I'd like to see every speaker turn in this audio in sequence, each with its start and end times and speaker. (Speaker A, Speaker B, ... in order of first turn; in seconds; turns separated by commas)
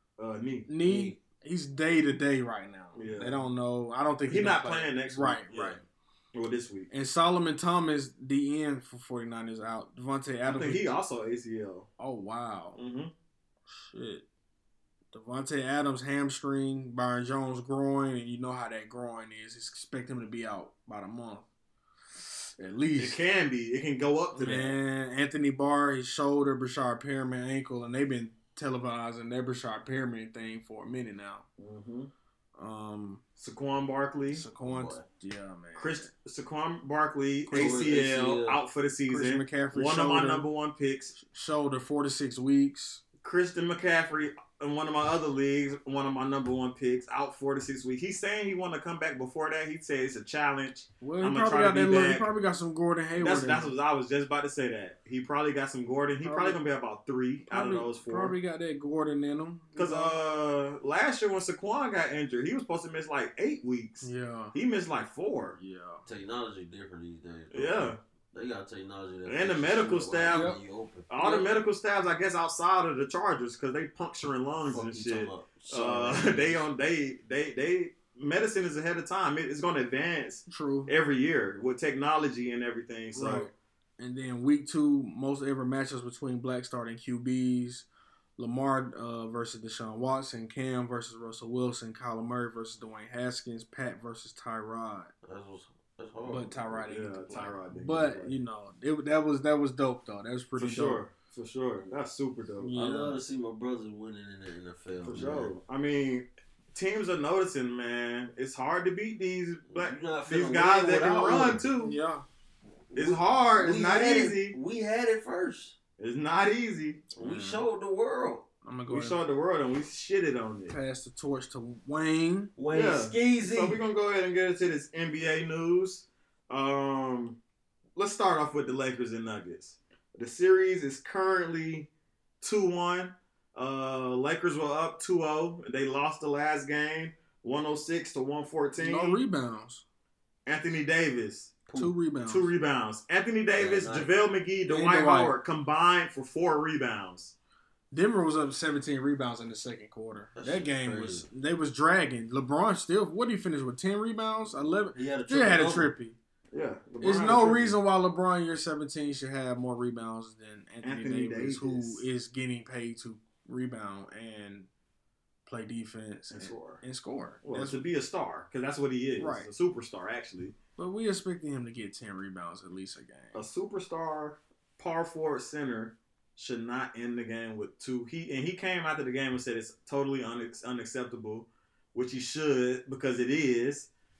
Speaker A: 0.2-0.7, Speaker B: 0.7-5.8, Speaker C: 0.8-1.2, Speaker A: 2.9-3.4, Speaker A: 4.3-5.8, Speaker A: 6.3-6.9, Speaker B: 6.9-11.0, Speaker A: 10.4-11.9, Speaker B: 12.0-12.8, Speaker A: 12.8-13.1, Speaker B: 13.7-14.2, Speaker B: 15.1-21.4, Speaker B: 22.6-23.2, Speaker A: 23.0-24.8, Speaker B: 24.4-31.4, Speaker A: 31.6-32.1, Speaker B: 32.6-33.2, Speaker A: 33.4-34.4, Speaker B: 34.3-36.1, Speaker C: 34.6-35.0, Speaker A: 35.8-41.2, Speaker B: 37.5-38.0, Speaker C: 37.5-38.6, Speaker B: 39.1-40.5, Speaker B: 41.2-43.0, Speaker A: 43.2-52.3, Speaker B: 51.0-53.7, Speaker A: 53.2-58.4, Speaker B: 56.2-56.6, Speaker B: 57.5-60.2, Speaker A: 59.8-65.6, Speaker B: 64.0-64.5, Speaker B: 65.6-66.0, Speaker C: 66.0-71.1, Speaker A: 67.5-68.0, Speaker A: 69.3-70.5, Speaker B: 70.3-70.6, Speaker A: 71.1-83.5, Speaker B: 71.2-71.5, Speaker C: 74.7-76.6, Speaker B: 80.5-80.9, Speaker B: 83.1-87.9, Speaker B: 88.4-95.1, Speaker C: 95.2-96.8, Speaker B: 96.3-101.0, Speaker A: 96.8-98.4, Speaker A: 100.6-102.7, Speaker B: 102.6-103.2, Speaker C: 102.7-105.5, Speaker A: 105.0-112.0, Speaker C: 109.7-111.6, Speaker B: 111.8-112.2, Speaker C: 112.9-115.8, Speaker A: 112.9-114.6, Speaker A: 116.0-117.0, Speaker C: 117.2-118.5, Speaker B: 117.2-117.7, Speaker B: 118.6-119.2, Speaker A: 118.9-120.7, Speaker B: 120.7-122.5, Speaker C: 122.6-123.8, Speaker A: 122.7-127.4, Speaker A: 128.0-131.9, Speaker A: 132.4-139.2, Speaker B: 138.8-139.8, Speaker A: 140.4-141.6, Speaker C: 141.7-141.9, Speaker B: 141.8-142.5, Speaker A: 142.3-147.3, Speaker C: 143.6-144.1, Speaker B: 144.7-145.3, Speaker B: 147.9-156.2, Speaker C: 150.4-151.3, Speaker C: 154.9-155.9, Speaker A: 156.5-157.8, Speaker B: 157.0-164.7, Speaker A: 160.8-162.0, Speaker B: 165.4-167.8, Speaker A: 166.3-166.8, Speaker A: 167.4-170.6, Speaker B: 169.2-169.5, Speaker B: 170.8-173.4, Speaker A: 173.3-183.9